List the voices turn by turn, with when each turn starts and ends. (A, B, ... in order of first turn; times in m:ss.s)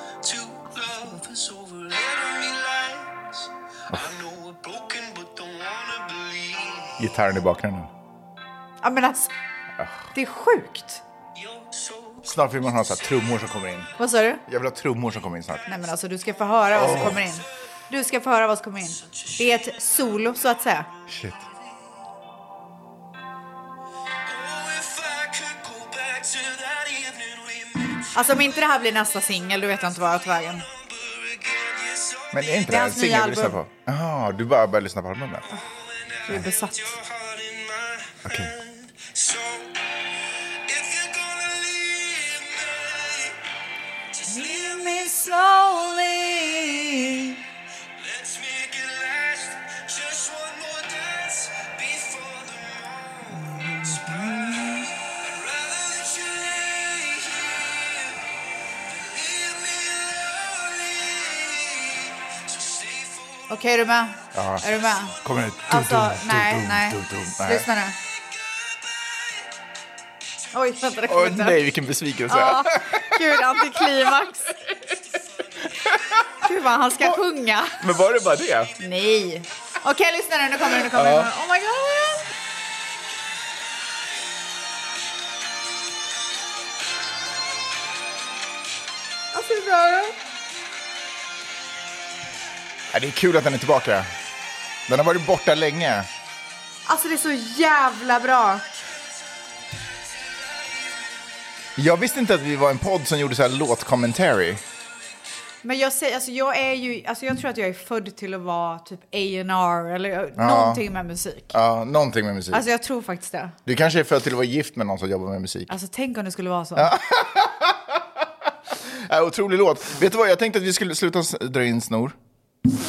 0:00.2-0:07.0 A
0:07.0-0:07.9 B
0:08.8-0:09.3 C
0:10.1-0:11.0 C
0:11.4-0:12.2 A
0:12.2-0:13.9 B
0:14.0-0:14.4 C
0:14.4-0:15.7 B
0:15.7-0:20.9 C
0:16.7-0:17.3 B
0:21.1-0:21.4 B
0:24.2-0:28.6 A
0:28.1-0:30.7 C
0:30.0-0:32.4 A
0:32.3-0:35.5 B
0:32.7-0:33.6 C
0:35.5-0:39.8 A
0:36.2-0:37.0 C
0:38.2-0:38.5 B
0:40.7-0:43.4 A
0:44.2-0:45.2 A
0:44.3-0:47.4 C
0:48.0-0:58.2 A
0:53.4-0:54.8 C
0:58.9-1:03.4 A
1:03.5-1:08.0 C
1:04.3-1:07.7 B
1:10.5-1:11.6 C
1:11.0-1:13.9 B
1:12.3-1:14.5 C
1:16.4-1:17.8 C
1:17.8-1:18.7 B
1:18.8-1:22.3 C
1:20.7-1:21.3 B
1:29.3-1:30.1 C
1:32.9-1:34.1 B
1:34.9-1:36.1 B
1:36.9-1:38.6 C
1:41.8-1:44.6 B
1:45.6-1:51.5 C
1:50.4-1:50.8 B
1:51.5-1:52.6 B
1:52.5-1:53.6 C
1:53.6-1:55.7 B
1:55.7-1:56.9 C
1:56.8-1:58.0 B
1:58.7-2:02.2 B